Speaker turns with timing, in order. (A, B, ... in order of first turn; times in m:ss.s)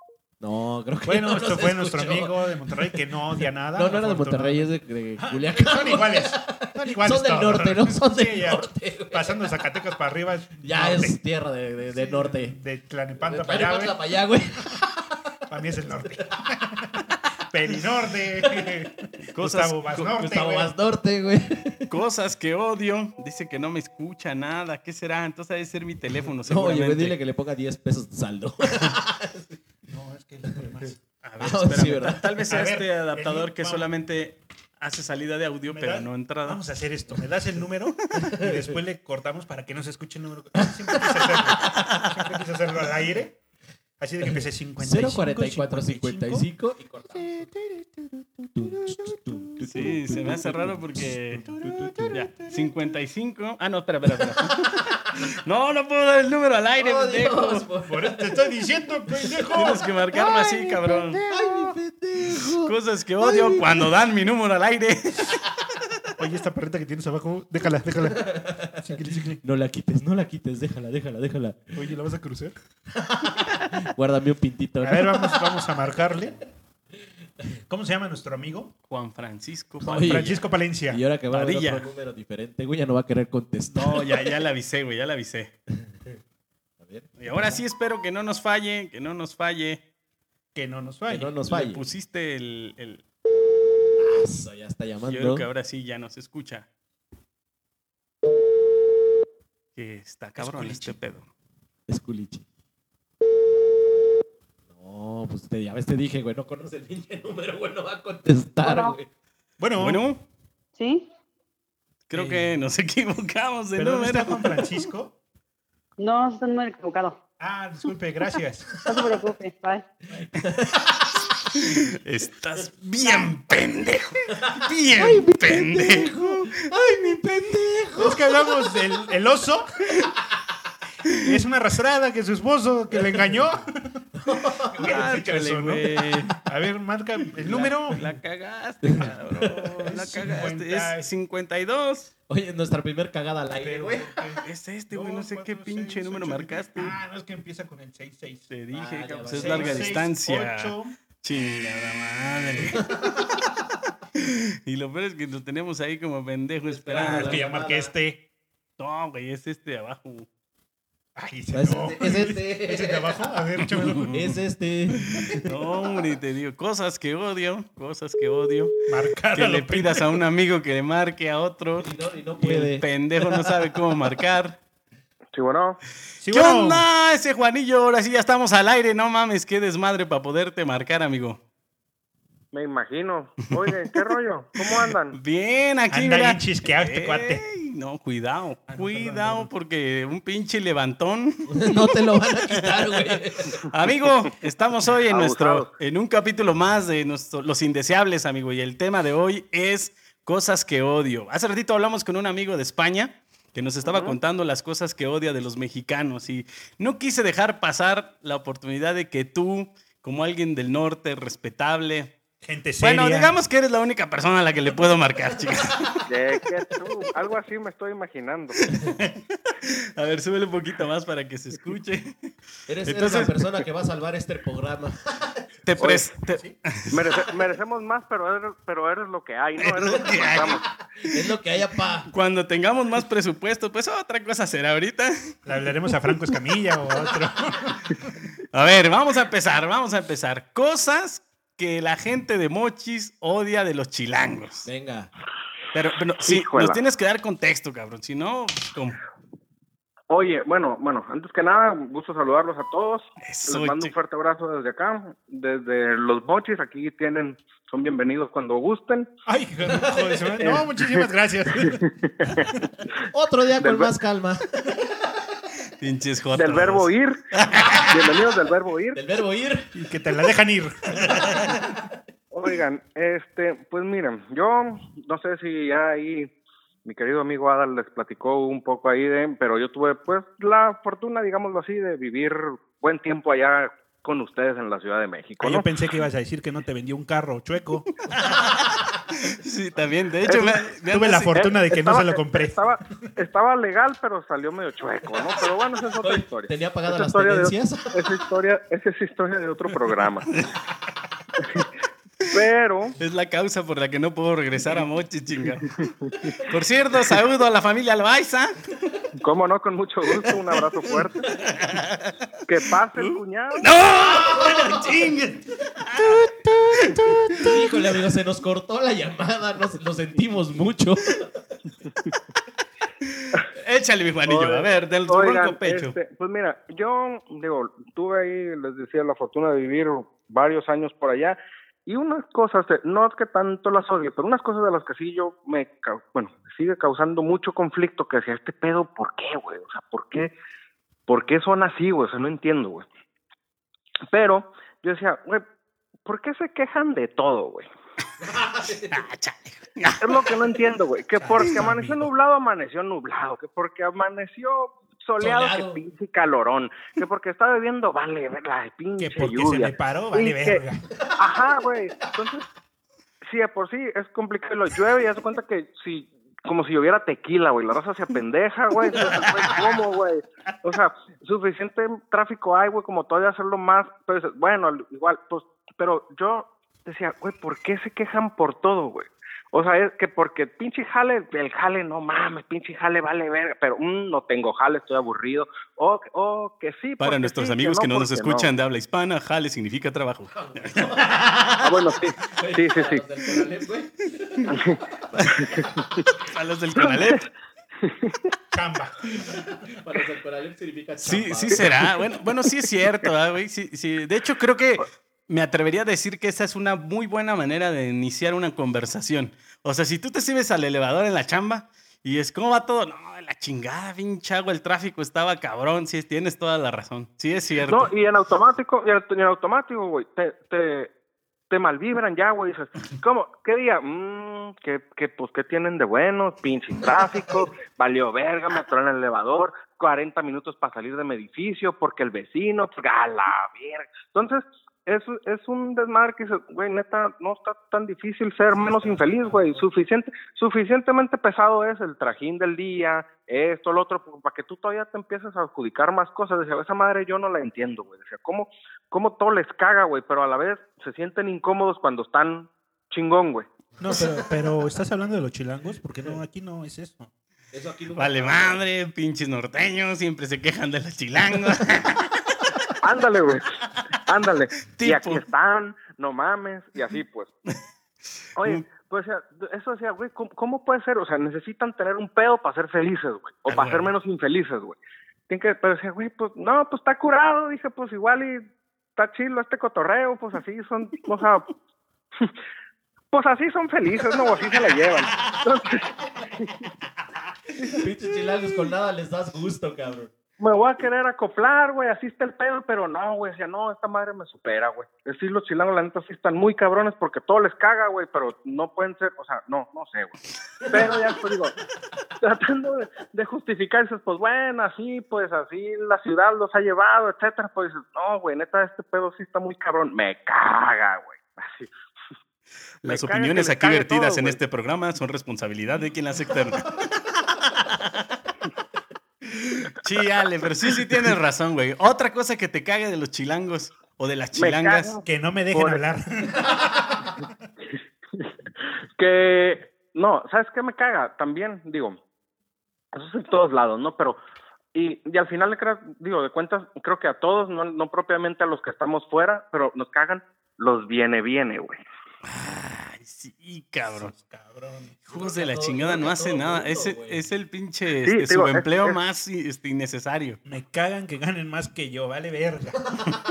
0:00.4-0:03.0 A
0:01.0-0:11.2 B
0:03.7-0:09.6 A
0:10.6-0:12.6 A
0:11.9-0:14.0 B
0:13.2-0:15.2 A
0:15.5-0:20.7 B
0:18.4-0:18.7 A
0:19.3-0:20.1 C
0:20.1-0:21.9 A
0:21.9-0:27.2 C
0:26.4-0:29.6 A
0:29.8-0:31.0 B
0:31.2-0:36.6 C
0:31.4-0:32.3 A
0:32.4-0:33.9 B
0:35.7-0:43.4 B
0:38.4-0:38.8 A
0:40.6-0:41.5 A
0:44.0-0:46.5 B
0:44.2-0:47.5 A
0:47.1-0:47.8 B
0:48.5-0:52.2 A
0:48.7-0:49.4 B
0:49.6-0:51.5 C
0:51.5-0:52.2 B
0:52.1-0:57.6 C
0:56.8-0:58.5 A
0:57.8-0:59.8 B
0:59.2-0:59.5 A
0:59.5-1:01.2 C
1:00.8-1:03.9 A
1:01.2-1:01.7 B
1:02.6-1:05.5 C
1:06.2-1:09.4 B
1:08.0-1:08.7 A
1:09.4-1:11.8 A
1:11.7-1:12.6 B
1:12.9-1:15.7 A
1:14.8-1:16.4 B
1:17.7-1:18.7 B
1:18.9-1:20.4 C
1:19.8-1:24.3 A
1:20.0-1:21.0 B
1:21.3-1:21.9 C
1:23.7-1:25.5 C
1:25.8-1:26.1 A
1:26.8-1:27.6 A
1:27.2-1:29.8 C
1:30.5-1:31.4 B
1:31.1-1:31.8 A
1:31.5-1:33.0 C
1:34.0-1:35.5 A
1:35.0-1:36.7 C
1:39.8-1:41.3 C
1:40.4-1:41.0 B
1:41.9-1:42.4 A
1:44.7-1:49.1 A
1:48.6-1:49.0 D
1:49.6-1:50.0 B
1:49.8-1:50.2 C
1:50.8-1:51.0 D
1:52.1-1:54.5 C
1:52.2-1:52.4 B
1:53.8-1:55.1 B
1:56.0-1:57.2 D
1:57.4-1:58.8 B
1:58.8-1:59.8 D
2:00.2-2:00.8 A
2:01.5-2:06.7 C
2:04.4-2:08.7 A
2:08.0-2:09.8 B
2:11.2-2:13.7 B
2:12.9-2:13.3 A
2:14.2-2:14.9 A
2:14.7-2:18.0 B
2:14.8-2:16.4 C
2:17.4-2:22.1 C
2:18.9-2:19.6 A
2:19.8-2:21.1 B
2:22.3-2:24.3 A
2:23.6-2:28.5 B
2:24.4-2:26.9 C
2:28.5-2:32.8 C
2:28.7-2:30.0 A
2:29.3-2:30.9 B
2:32.7-2:33.3 A
2:34.2-2:37.4 C
2:36.7-2:37.9 A
2:36.9-2:38.2 B
2:38.8-2:40.3 C
2:41.2-2:44.3 B
2:41.5-2:43.3 A
2:44.1-2:45.4 A
2:45.1-2:48.8 C
2:48.9-2:50.2 B
2:49.3-2:54.6 C
2:51.8-2:53.5 A
2:55.3-2:55.8 E
2:56.2-2:56.8 B
2:56.3-3:01.4 C
3:02.5-3:05.2 E
3:04.6-3:11.9 C
3:05.9-3:07.4 B
3:08.7-3:09.5 B
3:11.5-3:13.6 A
3:12.5-3:32.1 C
3:15.1-3:15.7 E
3:23.8-3:24.2 E
3:32.4-3:33.3 B
3:32.8-3:36.0 C
3:36.1-3:38.6 E
3:38.6-3:42.3 C
3:42.7-3:45.5 A
3:42.8-3:43.3 C
3:45.6-3:47.0 C
3:45.8-3:46.1 E
3:46.9-3:50.6 E
3:49.6-3:50.6 C
3:51.1-3:52.1 A
3:52.1-3:55.3 C
3:55.4-3:57.8 B
3:58.5-4:04.7 C
4:04.6-4:05.1 A
4:05.7-4:09.0 C
4:06.2-4:06.8 E
4:10.1-4:19.1 E
4:13.2-4:13.9 C
4:19.3-4:21.8 B
4:19.6-4:20.3 A
4:20.4-4:20.7 E
4:21.6-4:22.5 E
4:23.1-4:25.1 A
4:23.6-4:23.9 E
4:25.8-4:27.9 C
4:26.3-4:27.2 E
4:27.5-4:27.9 A
4:27.9-4:29.0 E
4:28.9-4:29.7 A
4:29.7-4:31.5 B
4:31.1-4:31.8 A
4:32.3-4:36.3 E
4:36.8-4:45.6 E
4:45.4-4:47.9 B
4:48.1-4:51.4 C
4:50.9-4:52.6 B
4:51.4-5:00.3 E
4:56.0-4:58.0 A
5:02.3-5:02.9 E
5:03.0-5:05.7 C
5:05.8-5:06.3 E
5:06.4-5:08.7 C
5:09.2-5:11.3 E
5:10.1-5:12.2 C
5:12.5-5:13.7 E
5:12.9-5:17.6 C
5:14.1-5:14.9 A
5:17.3-5:21.4 A
5:23.1-5:26.0 C
5:24.3-5:40.3 E
5:41.1-5:42.9 E
5:44.1-5:45.4 E
5:46.0-5:47.7 E
5:48.2-5:49.0 A
5:48.9-5:50.4 C
5:50.0-6:00.6 E
5:51.2-5:52.1 B
5:55.2-5:55.8 A
5:59.0-6:00.8 B
6:00.9-6:01.3 A
6:01.2-6:02.4 E
6:03.2-6:28.5 E
6:27.0-6:31.6 C
6:30.3-6:31.5 A
6:31.6-6:33.0 E
6:32.3-6:34.5 A
6:34.5-6:34.8 E
6:35.4-6:36.0 E
6:36.2-6:37.3 C
6:36.8-6:37.2 E
6:37.8-6:38.2 E
6:38.5-6:39.1 B
6:39.7-6:41.8 A
6:41.0-6:57.9 C
6:57.6-7:00.9 E
7:01.5-7:33.5 E
7:18.6-7:19.6 A
7:33.8-7:37.1 B
7:33.9-7:34.3 A
7:37.5-7:38.6 A
7:38.0-7:42.2 C
7:42.8-7:43.5 E
7:44.0-7:47.3 E
7:44.7-7:45.2 C
7:48.4-7:54.8 E
7:53.5-7:53.8 C
7:55.3-7:58.4 E
7:59.0-8:01.4 E
8:03.1-8:05.9 E
8:07.8-8:10.1 A
8:10.4-8:20.2 E
8:20.7-8:21.1 A
8:20.7-8:21.5 E
8:22.2-8:31.7 E
8:32.8-8:38.1 C
8:32.8-8:34.4 E
8:39.3-8:45.0 C
8:44.3-8:45.8 E
8:45.0-8:47.2 B
8:49.0-8:52.0 E
8:52.9-8:54.2 E
8:54.7-9:01.8 E
9:02.2-9:04.1 C
9:03.9-9:05.0 B
9:05.1-9:10.4 C
9:05.1-9:07.2 A
9:08.0-9:09.0 E
9:10.4-9:12.9 B
9:12.9-9:13.2 A